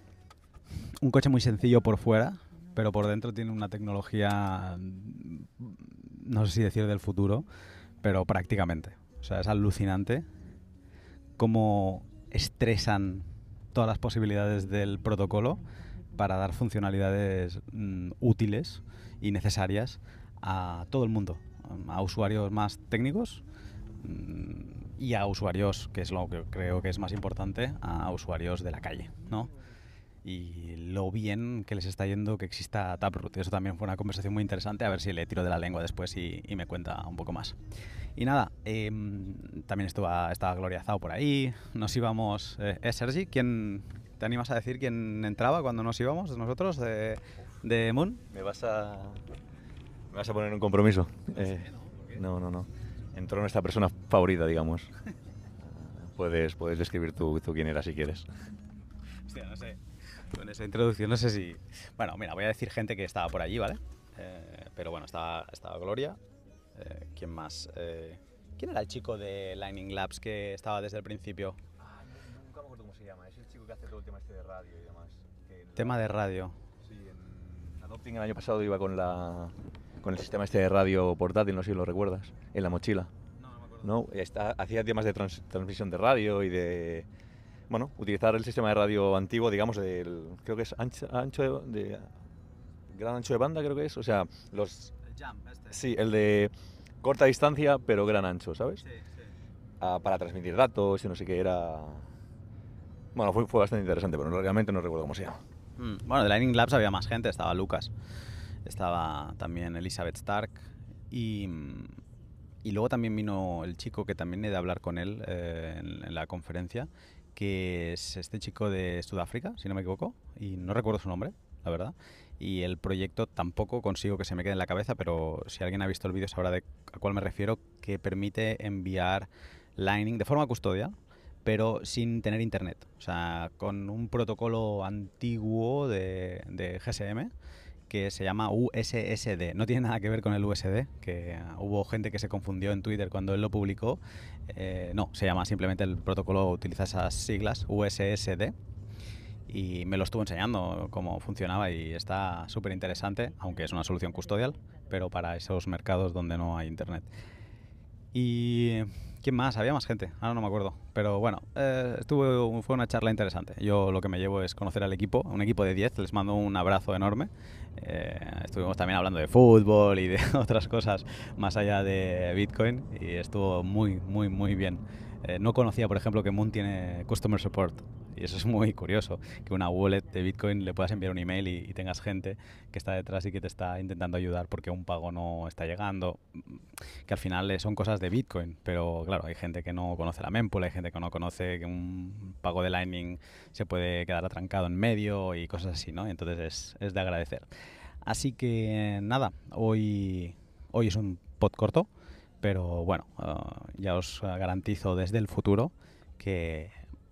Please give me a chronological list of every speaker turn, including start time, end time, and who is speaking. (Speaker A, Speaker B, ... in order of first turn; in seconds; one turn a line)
Speaker A: 1.0-7.4
Speaker A: 8.0-10.2
Speaker A: 11.4-15.6
Speaker A: 16.1-23.4
Speaker A: 24.0-29.5
Speaker A: 30.2-37.5
Speaker A: 38.1-48.2
Speaker B: 48.3-49.2
Speaker B: 50.1-54.9
Speaker B: 55.6-58.3
Speaker A: 59.3-66.2
Speaker A: 66.8-71.6
Speaker B: 71.8-76.0
Speaker A: 75.8-76.5
Speaker B: 76.8-83.1
Speaker A: 83.4-83.8
Speaker B: 83.8-87.1
Speaker B: 87.7-92.1
Speaker B: 92.9-94.9
Speaker A: 95.1-95.8
Speaker B: 95.7-98.8
Speaker A: 98.8-99.1
Speaker B: 99.8-102.0
Speaker B: 103.1-105.4
Speaker A: 105.8-107.9
Speaker A: 108.6-112.0
Speaker A: 112.6-137.3
Speaker A: 137.9-148.5
Speaker A: 149.5-157.1
Speaker A: 158.1-197.5
Speaker A: 198.1-201.9
Speaker A: 202.4-206.7